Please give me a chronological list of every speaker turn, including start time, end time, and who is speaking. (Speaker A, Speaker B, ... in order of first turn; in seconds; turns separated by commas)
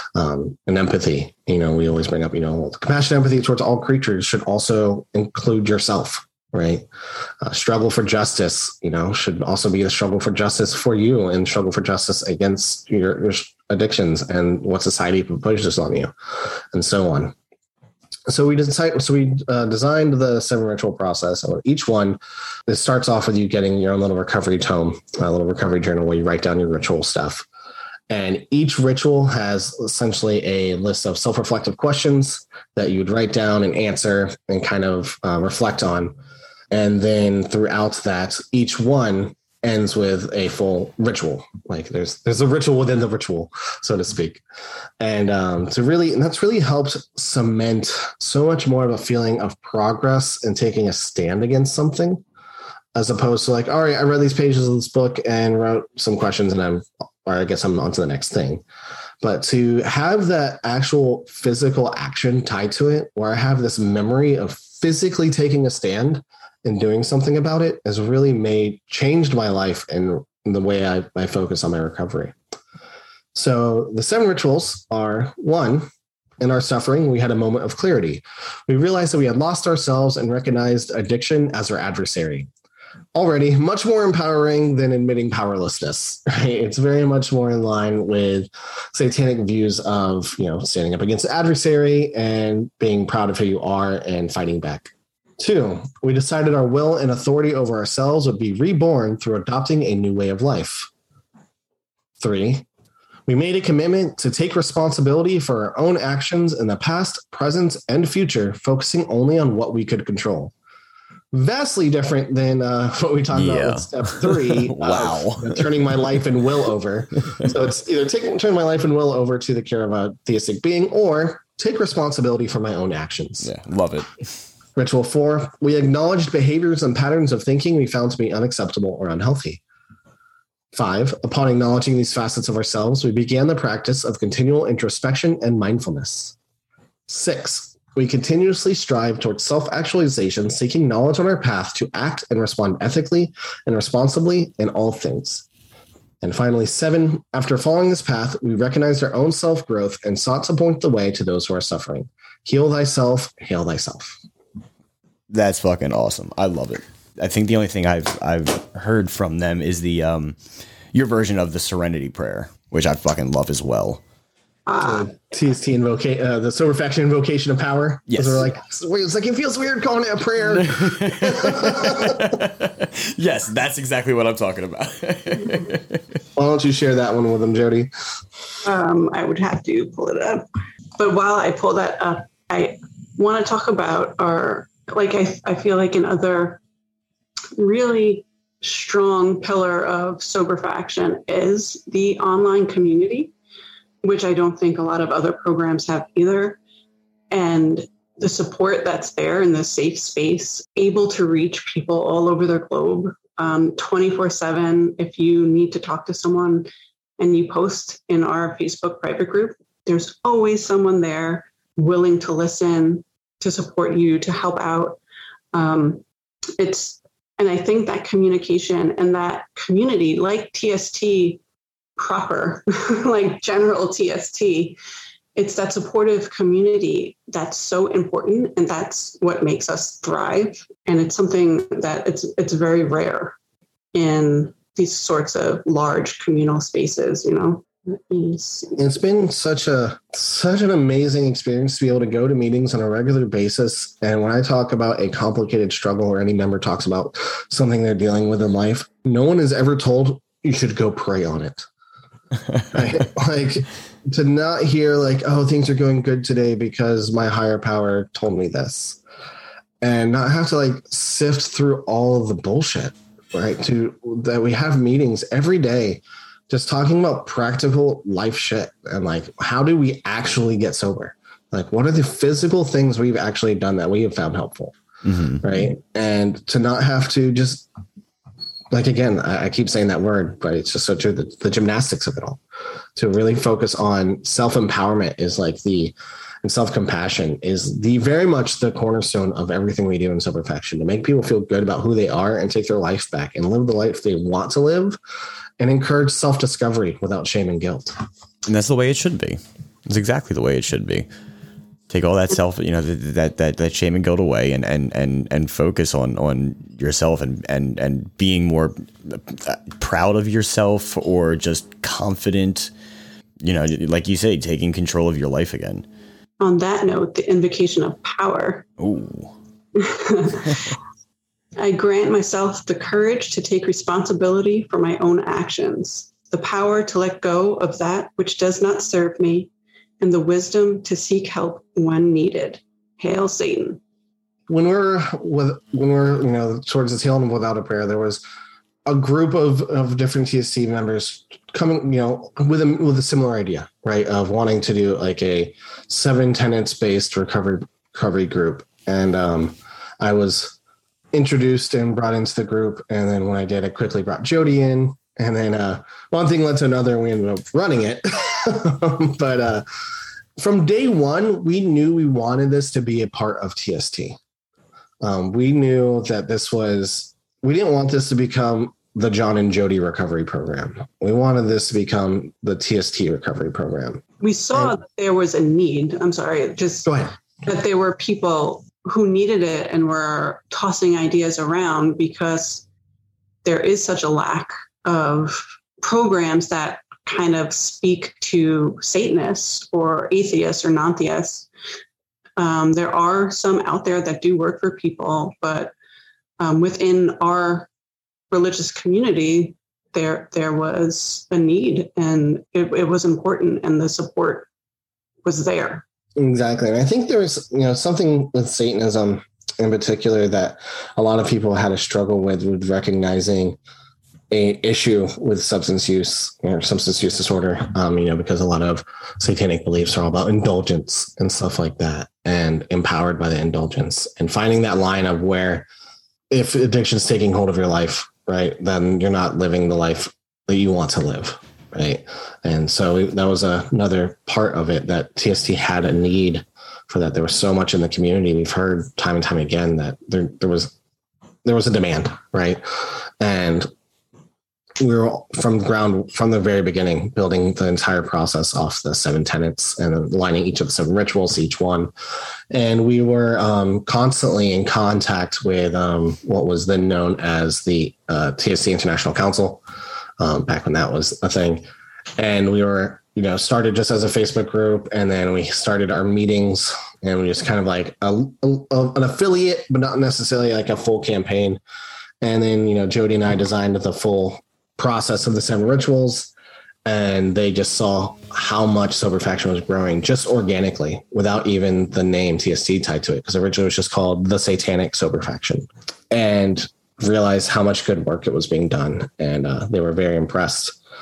Speaker A: 0.2-6.9, Speaker A: 7.4-16.1, Speaker A: 16.7-17.3, Speaker A: 18.3-27.5, Speaker A: 28.1-36.1, Speaker A: 36.7-44.4, Speaker A: 45.0-52.2, Speaker A: 53.0-58.6, Speaker A: 59.2-72.3, Speaker A: 73.3-75.9, Speaker A: 76.4-82.5, Speaker A: 83.2-100.9, Speaker A: 102.2-102.7, Speaker A: 103.3-110.5, Speaker A: 111.3-123.5, Speaker B: 113.3-116.2, Speaker B: 123.4-124.1, Speaker A: 124.8-129.6, Speaker A: 130.7-136.3, Speaker A: 137.1-145.4, Speaker A: 146.2-154.2, Speaker B: 155.3-160.4, Speaker B: 160.9-164.0, Speaker C: 164.7-165.1, Speaker A: 164.8-172.3, Speaker B: 168.1-168.5, Speaker B: 170.5-176.0, Speaker A: 176.4-177.9, Speaker C: 178.6-180.4, Speaker C: 181.0-186.6, Speaker C: 187.6-193.3, Speaker C: 194.0-196.6, Speaker C: 197.3-206.7, Speaker C: 207.2-215.0, Speaker C: 215.5-216.0, Speaker C: 216.6-221.4, Speaker C: 222.0-224.8, Speaker C: 225.4-233.3, Speaker C: 233.9-238.7, Speaker A: 238.8-251.6, Speaker A: 252.7-259.0, Speaker A: 259.8-274.8, Speaker B: 275.0-275.4, Speaker A: 275.4-277.7, Speaker A: 278.7-282.4, Speaker A: 283.0-295.0, Speaker A: 295.6-297.9, Speaker B: 298.5-301.1, Speaker B: 301.9-312.7, Speaker B: 313.4-315.9, Speaker C: 316.4-318.6, Speaker B: 318.8-319.4, Speaker C: 319.8-320.5, Speaker C: 321.6-333.8, Speaker A: 334.5-338.2, Speaker A: 338.9-350.6, Speaker A: 351.1-359.6, Speaker A: 360.4-364.2, Speaker A: 365.0-374.0, Speaker C: 374.2-376.9, Speaker A: 376.9-377.1, Speaker C: 377.4-382.6, Speaker C: 383.4-391.5, Speaker C: 392.4-395.7, Speaker C: 396.4-397.7, Speaker C: 398.3-404.5, Speaker C: 405.2-405.8, Speaker A: 406.2-413.6, Speaker A: 414.3-425.7, Speaker A: 426.3-440.7, Speaker A: 441.4-442.6, Speaker A: 443.2-443.7, Speaker A: 444.8-451.9, Speaker A: 452.5-459.6, Speaker A: 460.2-461.6, Speaker A: 462.2-471.6, Speaker A: 472.2-476.3, Speaker A: 476.9-490.8